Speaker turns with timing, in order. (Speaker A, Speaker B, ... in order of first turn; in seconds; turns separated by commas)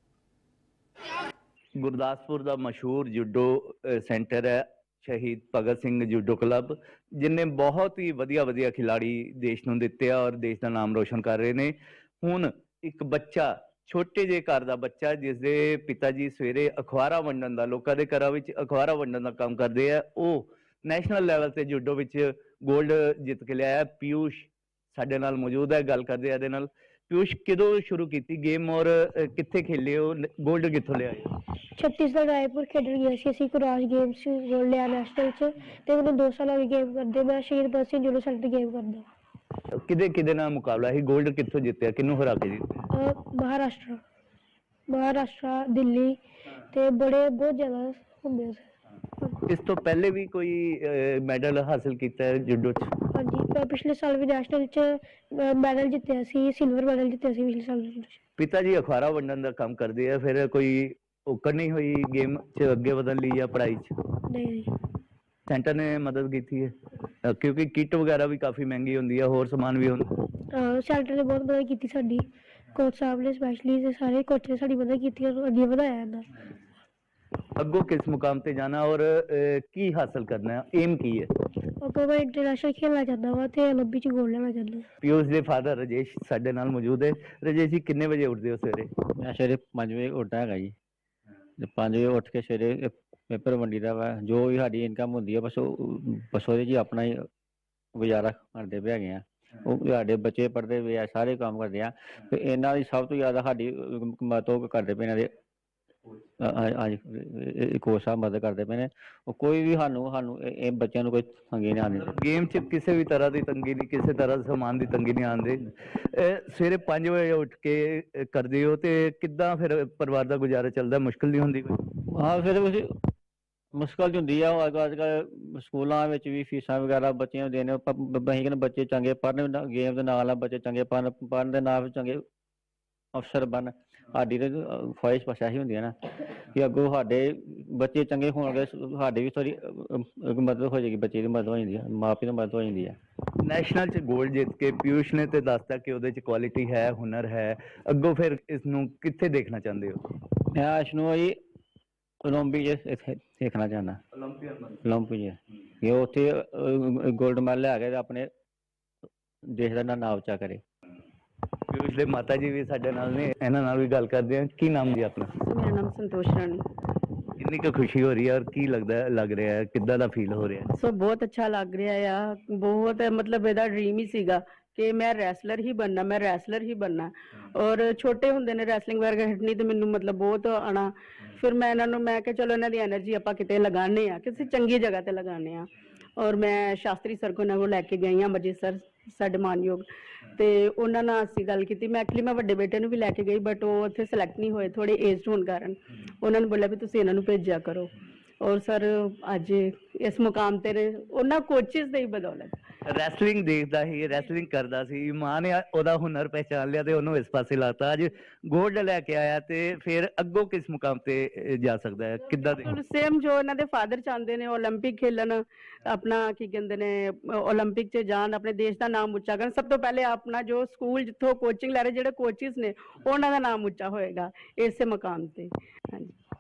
Speaker A: 1.8-31.3, Speaker B: 31.8-39.1, Speaker A: 39.8-42.8, Speaker B: 42.9-44.0, Speaker B: 44.9-48.7, Speaker A: 49.5-52.9, Speaker B: 53.1-58.2, Speaker A: 58.4-64.0, Speaker B: 64.3-64.7, Speaker A: 65.5-70.1, Speaker B: 70.5-76.3, Speaker A: 77.6-81.3, Speaker B: 81.8-84.9, Speaker A: 85.0-88.9, Speaker C: 89.2-90.8, Speaker C: 91.6-97.3, Speaker C: 98.0-105.3, Speaker C: 106.4-112.1, Speaker A: 111.9-121.8, Speaker C: 122.1-122.9, Speaker C: 123.7-132.2, Speaker C: 133.1-143.0, Speaker A: 143.4-150.0, Speaker C: 150.5-151.4, Speaker C: 152.2-154.0, Speaker A: 154.1-154.8, Speaker C: 154.8-158.3, Speaker C: 159.5-160.6, Speaker A: 161.7-165.3, Speaker D: 165.4-166.6, Speaker A: 167.4-170.7, Speaker D: 170.8-202.6, Speaker A: 202.9-212.7, Speaker D: 212.5-226.2